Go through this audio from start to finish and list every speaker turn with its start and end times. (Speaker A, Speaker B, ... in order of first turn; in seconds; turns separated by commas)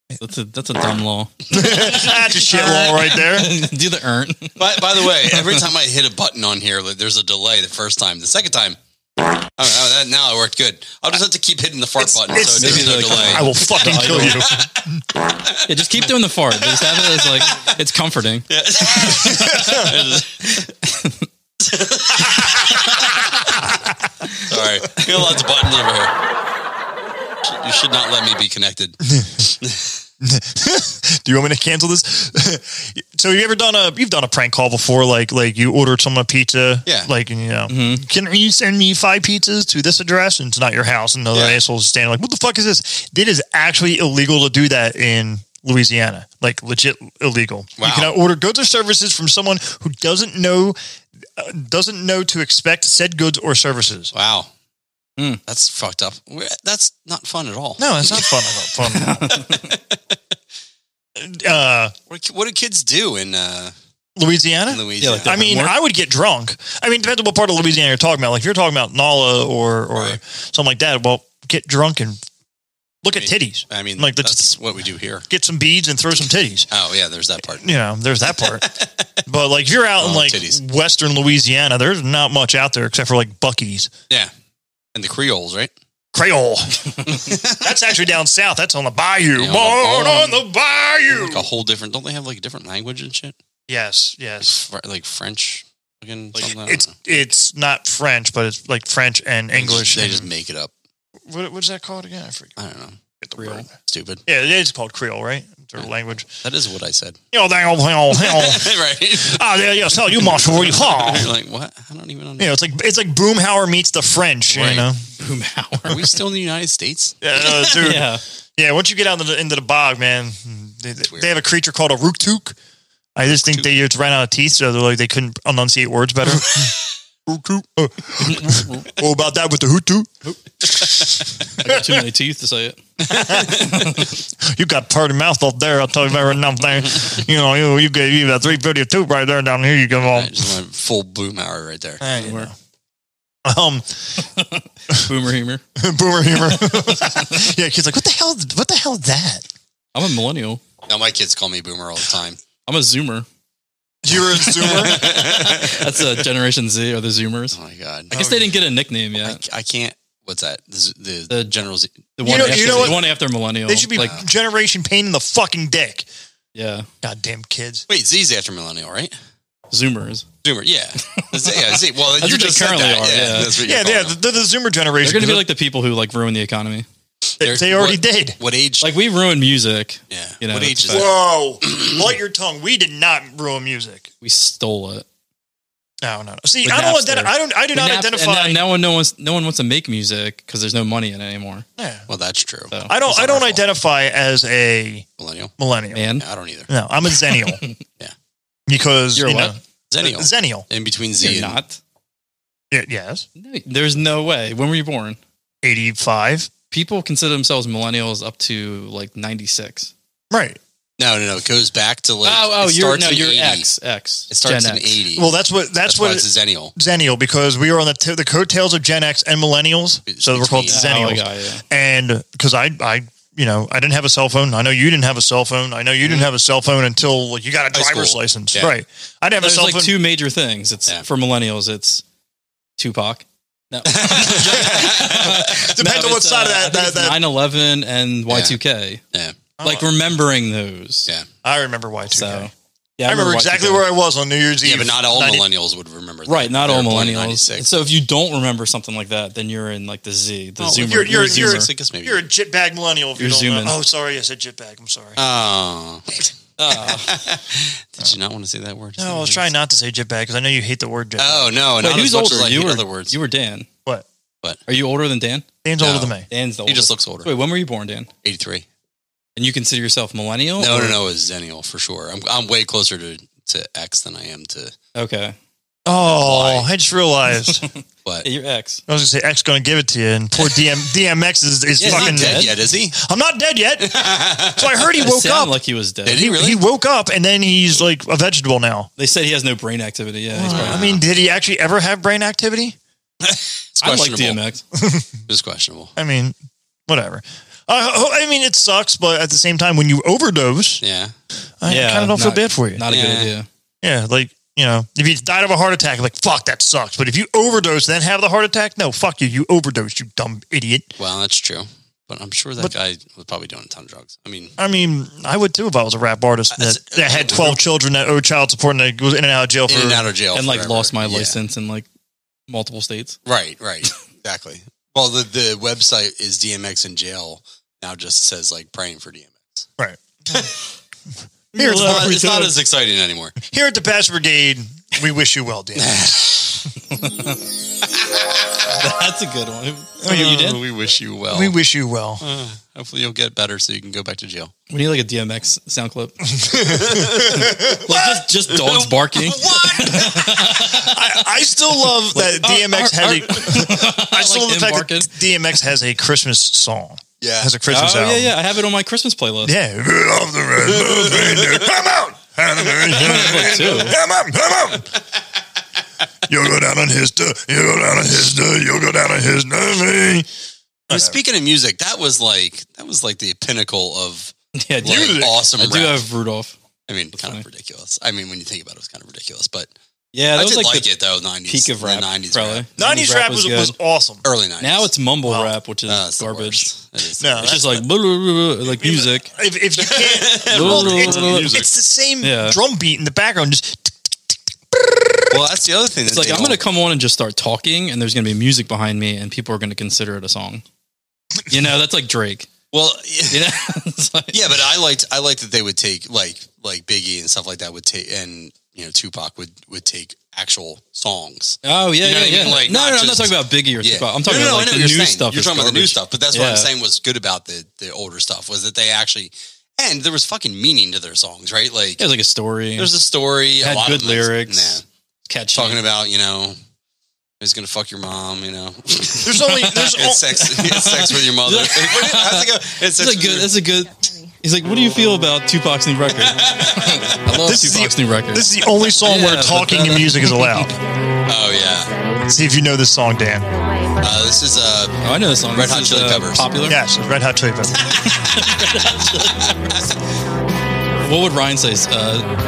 Speaker A: 0.2-4.6, Speaker B: 1.5-3.6, Speaker C: 4.6-8.8, Speaker C: 9.6-14.6, Speaker B: 12.0-15.0, Speaker A: 12.6-14.4, Speaker A: 15.7-18.5, Speaker C: 16.8-17.7, Speaker C: 18.5-20.6, Speaker B: 19.1-20.0, Speaker A: 19.6-19.8, Speaker A: 20.8-21.2, Speaker C: 21.6-23.3, Speaker B: 22.3-22.6, Speaker C: 24.3-26.1, Speaker C: 27.4-29.0, Speaker B: 29.1-29.5, Speaker C: 29.6-29.9, Speaker B: 30.2-50.8, Speaker A: 37.7-38.0, Speaker C: 41.3-41.6, Speaker C: 47.8-48.1, Speaker B: 51.4-54.1, Speaker C: 54.1-54.5, Speaker C: 55.5-58.4, Speaker B: 57.8-59.3, Speaker A: 58.9-59.6, Speaker C: 59.4-59.8, Speaker B: 61.1-61.9, Speaker C: 62.1-63.7, Speaker B: 64.2-72.2, Speaker C: 64.7-65.5, Speaker A: 65.0-65.7, Speaker B: 73.0-74.5, Speaker C: 73.1-75.2, Speaker B: 75.3-76.7, Speaker C: 76.7-77.7, Speaker B: 77.6-78.7, Speaker C: 78.4-79.0, Speaker B: 79.2-83.9, Speaker C: 80.0-80.6, Speaker C: 84.9-85.7, Speaker B: 86.1-91.5, Speaker C: 87.1-87.7, Speaker C: 89.4-90.4, Speaker C: 91.1-93.3, Speaker B: 93.7-94.6, Speaker C: 94.4-96.9, Speaker B: 96.3-100.3, Speaker C: 99.5-100.7, Speaker B: 101.3-102.6, Speaker C: 102.6-103.0, Speaker B: 103.2-103.7, Speaker A: 103.4-103.7, Speaker C: 103.7-104.2, Speaker B: 104.3-106.3, Speaker C: 106.4-107.2, Speaker B: 107.3-111.3, Speaker C: 108.1-112.5, Speaker B: 112.4-115.0, Speaker C: 114.5-114.9, Speaker A: 115.2-116.0, Speaker C: 115.9-117.8, Speaker B: 117.2-122.6, Speaker A: 117.8-118.2, Speaker B: 123.2-126.8, Speaker C: 123.3-123.7, Speaker B: 127.3-131.1, Speaker A: 128.3-128.8, Speaker A: 131.6-132.8, Speaker B: 131.6-132.0, Speaker C: 133.0-133.7, Speaker B: 133.1-133.7, Speaker A: 133.6-134.1, Speaker B: 134.4-140.5, Speaker C: 140.0-142.0, Speaker B: 142.0-142.5, Speaker A: 142.1-142.5, Speaker B: 143.4-144.0, Speaker A: 144.3-145.6, Speaker B: 145.8-149.4, Speaker A: 149.9-150.6, Speaker C: 150.9-152.4, Speaker A: 152.7-153.2, Speaker B: 154.0-155.4, Speaker C: 154.5-155.8, Speaker A: 154.8-157.6, Speaker C: 157.5-158.5, Speaker A: 158.1-159.4, Speaker C: 159.2-163.0, Speaker A: 162.2-164.1, Speaker B: 162.2-163.1, Speaker B: 163.7-166.1, Speaker C: 163.9-164.2, Speaker A: 166.5-166.9, Speaker B: 167.0-167.8, Speaker C: 167.9-169.1, Speaker A: 169.7-170.2, Speaker C: 170.4-174.2, Speaker A: 171.2-173.5, Speaker B: 173.5-175.5, Speaker A: 175.0-176.8, Speaker C: 177.4-178.9, Speaker B: 177.4-178.4, Speaker A: 178.8-181.1, Speaker C: 180.1-181.9, Speaker B: 180.9-184.1, Speaker A: 184.2-185.1, Speaker B: 186.0-188.6, Speaker A: 186.6-191.7, Speaker B: 191.8-192.1, Speaker C: 192.1-193.6, Speaker B: 192.9-195.1, Speaker C: 195.2-195.5, Speaker B: 195.6-196.1, Speaker A: 195.9-196.2, Speaker C: 196.2-196.7, Speaker B: 196.7-197.6, Speaker B: 198.7-200.7, Speaker A: 199.2-199.5, Speaker C: 199.9-201.6, Speaker A: 201.2-201.8, Speaker B: 202.7-203.2, Speaker A: 203.4-205.2, Speaker B: 205.6-206.5, Speaker A: 206.7-209.9, Speaker B: 210.3-210.6, Speaker C: 211.0-213.7, Speaker A: 212.2-215.0, Speaker C: 214.3-215.3, Speaker B: 215.1-230.0, Speaker C: 215.8-216.7, Speaker C: 220.1-220.8, Speaker A: 220.7-221.6, Speaker C: 227.7-228.7, Speaker A: 229.4-232.0, Speaker A: 232.8-239.0, Speaker C: 233.8-235.5, Speaker B: 234.3-237.2, Speaker C: 238.3-238.6, Speaker B: 239.6-239.9, Speaker A: 239.6-241.1, Speaker B: 241.4-242.5, Speaker A: 242.1-243.9, Speaker B: 243.0-245.4, Speaker C: 244.6-247.7, Speaker A: 246.3-251.7, Speaker C: 250.6-252.3, Speaker B: 250.8-255.2, Speaker A: 253.2-253.8, Speaker C: 255.2-259.5, Speaker A: 256.6-257.2, Speaker B: 259.0-261.6, Speaker C: 261.2-263.1, Speaker A: 261.8-263.7, Speaker A: 264.7-265.4, Speaker B: 265.6-266.3, Speaker C: 265.8-266.1, Speaker A: 266.3-268.1, Speaker C: 266.6-267.3, Speaker C: 268.2-268.6, Speaker A: 269.4-271.0, Speaker C: 270.6-274.7, Speaker A: 274.9-275.4, Speaker B: 275.9-277.6, Speaker C: 276.0-276.7, Speaker A: 278.2-278.8, Speaker B: 278.9-288.9, Speaker A: 281.8-282.5, Speaker C: 281.8-283.0, Speaker C: 283.8-284.8, Speaker A: 285.0-286.2, Speaker C: 286.1-286.6, Speaker A: 289.0-290.8, Speaker B: 290.3-292.8, Speaker C: 290.5-291.0, Speaker C: 293.2-294.4, Speaker A: 293.8-294.6, Speaker B: 294.8-295.1, Speaker C: 295.3-295.9, Speaker B: 295.9-296.4, Speaker B: 296.9-300.8, Speaker C: 300.8-301.1, Speaker B: 301.6-302.8, Speaker A: 301.6-303.5, Speaker C: 302.9-303.3, Speaker B: 303.8-310.9, Speaker C: 311.0-314.5, Speaker B: 314.6-320.1, Speaker C: 316.5-317.6, Speaker C: 319.7-321.4, Speaker A: 320.3-321.9, Speaker A: 322.5-323.2, Speaker C: 323.2-329.7, Speaker B: 329.8-330.5, Speaker B: 331.5-332.3, Speaker A: 331.5-332.6, Speaker C: 331.6-333.4, Speaker B: 333.4-336.3, Speaker C: 335.8-336.7, Speaker A: 336.9-337.4, Speaker A: 338.7-340.6, Speaker B: 340.0-340.5, Speaker C: 340.1-341.6, Speaker B: 341.3-342.2, Speaker C: 342.2-344.5, Speaker A: 344.7-346.3, Speaker B: 346.3-348.1, Speaker C: 346.7-347.8, Speaker A: 347.7-350.9, Speaker C: 348.5-350.5, Speaker B: 349.9-358.4, Speaker A: 352.1-355.1, Speaker C: 357.2-357.5, Speaker A: 357.7-359.5, Speaker B: 359.4-364.9, Speaker C: 360.6-361.7, Speaker C: 362.6-363.7, Speaker A: 362.9-363.9, Speaker B: 366.3-370.3, Speaker B: 370.9-371.2, Speaker C: 370.9-376.0, Speaker A: 374.5-376.5, Speaker B: 374.8-375.4, Speaker C: 376.9-379.7, Speaker A: 377.1-377.4, Speaker A: 380.1-380.9, Speaker C: 380.3-382.7, Speaker A: 381.5-383.7, Speaker B: 382.8-384.2, Speaker C: 384.2-384.9, Speaker A: 384.6-386.7, Speaker B: 385.2-385.5, Speaker C: 385.9-387.6, Speaker B: 387.2-387.8, Speaker A: 387.4-389.3, Speaker B: 388.6-395.3, Speaker C: 389.8-391.7, Speaker A: 390.5-391.5, Speaker A: 392.2-392.6, Speaker C: 395.3-396.6, Speaker A: 396.1-400.6, Speaker A: 401.5-402.5, Speaker C: 402.7-403.5, Speaker A: 403.3-404.4, Speaker C: 404.3-422.1, Speaker A: 411.6-416.7, Speaker A: 422.0-422.9, Speaker C: 422.8-424.8, Speaker A: 423.6-425.8, Speaker C: 425.5-426.6, Speaker C: 427.4-433.6, Speaker B: 429.2-430.4, Speaker A: 430.4-440.7, Speaker C: 436.2-437.2, Speaker B: 437.4-440.8, Speaker C: 441.2-441.9, Speaker B: 442.2-443.5, Speaker C: 444.0-445.0, Speaker A: 445.0-446.8, Speaker C: 445.5-446.5, Speaker B: 446.6-447.8, Speaker C: 447.8-448.7, Speaker A: 448.0-449.4, Speaker C: 449.3-449.9, Speaker A: 451.0-452.3